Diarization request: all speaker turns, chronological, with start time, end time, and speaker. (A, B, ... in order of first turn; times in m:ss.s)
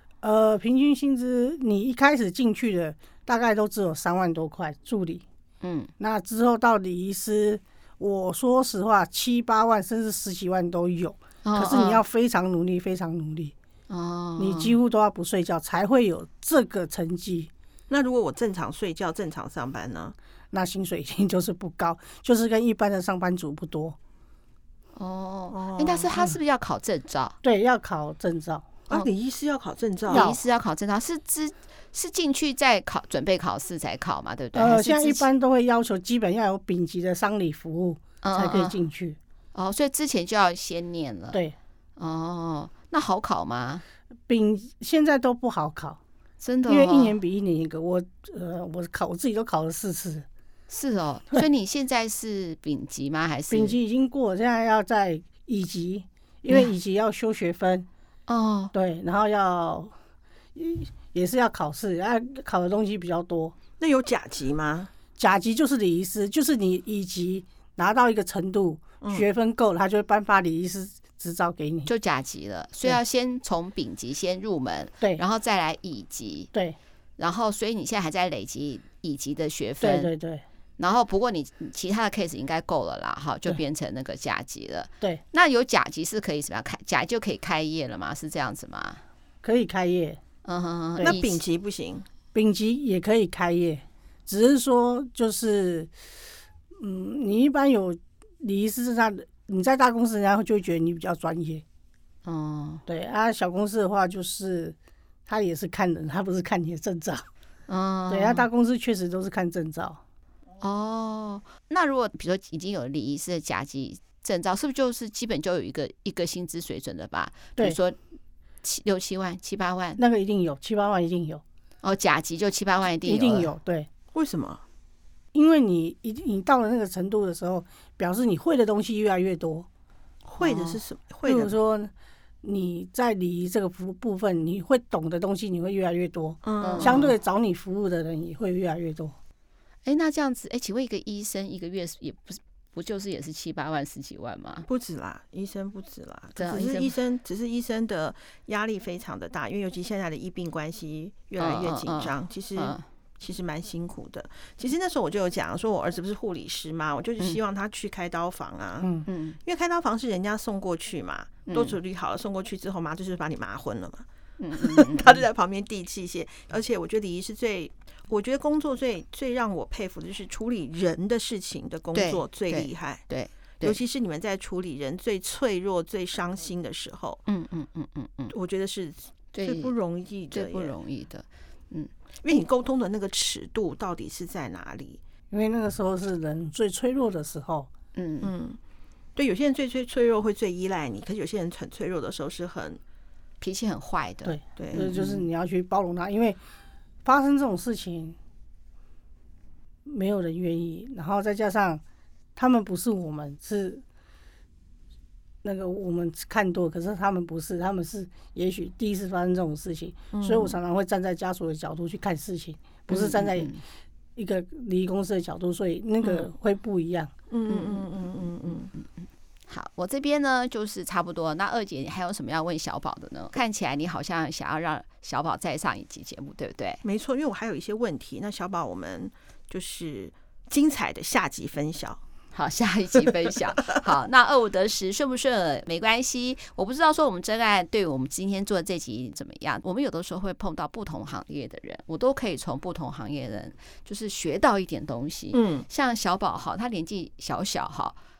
0:00.2-0:05.2 A
0:05.6-0:05.9 B
0:06.0-0:13.5 A
0:11.4-0:12.0 B
0:13.9-0:14.8 B
0:14.4-0:17.5 A
0:17.9-0:20.1 C
0:20.5-0:24.0 A
0:25.0-0:27.4 B
0:25.5-0:26.3 C
0:27.4-0:28.7 A
0:28.9-0:30.3 C
0:30.1-0:30.4 A
0:30.1-0:35.2 B
0:34.5-0:39.2 A
0:38.2-0:38.8 B
0:39.5-0:41.4 B
0:42.0-0:43.8 B
0:44.3-0:46.0 A
0:46.4-0:47.2 B
0:46.7-0:50.2 A
0:50.7-0:53.8 B
0:53.5-0:57.9 A
0:58.3-0:58.7 B
0:58.7-0:59.9 A
1:00.5-1:03.6 A
1:03.8-1:04.9 C
1:05.2-1:11.9 A
1:09.0-1:09.2 C
1:11.8-1:16.5 B
1:17.2-1:20.1 B
1:19.8-1:20.4 A
1:20.8-1:29.0 B
1:29.4-1:30.2 A
1:30.4-1:31.4 B
1:31.0-1:32.1 C
1:32.3-1:35.9 A
1:36.8-1:41.6 A
1:42.2-1:42.8 B
1:42.9-1:47.2 A
1:47.7-1:48.4 B
1:48.1-1:50.0 A
1:50.6-1:58.0 B
1:58.6-2:00.0 B
2:00.0-2:01.4 A
2:01.8-2:03.5 B
2:03.0-2:03.9 A
2:04.1-2:04.6 C
2:05.3-2:09.7 A
2:10.2-2:11.5 C
2:10.4-2:10.8 B
2:11.2-2:11.9 A
2:12.4-2:19.1 A
2:16.4-2:17.0 C
2:16.6-2:17.1 B
2:19.8-2:24.7 B
2:24.7-2:38.9 C
2:26.4-2:26.9 B
2:31.4-2:32.8 B
2:38.8-2:39.1 A
2:39.0-2:39.4 B
2:39.4-2:53.0 C
2:41.5-2:41.8 B
2:44.4-2:45.2 B
2:51.9-2:53.8 B
2:53.6-2:57.2 C
2:57.3-2:58.3 B
2:58.3-3:00.7 C
2:59.3-2:59.7 B
3:00.3-3:01.9 B
3:02.2-3:05.0 C
3:05.3-3:07.7 A
3:07.9-3:08.3 B
3:08.2-3:08.6 C
3:09.2-3:12.8 C
3:13.4-3:15.3 B
3:14.2-3:16.4 A
3:14.6-3:14.9 C
3:17.0-3:18.2 A
3:19.8-3:21.8 A
3:22.4-3:23.8 A
3:25.4-3:33.5 A
3:30.1-3:30.6 C
3:32.9-3:33.6 B
3:34.2-3:37.1 A
3:36.0-3:36.3 B
3:37.3-3:38.7 C
3:37.5-3:38.1 B
3:38.8-3:46.8 B
3:46.8-3:52.0 C
3:52.3-4:08.0 B
4:05.3-4:05.7 C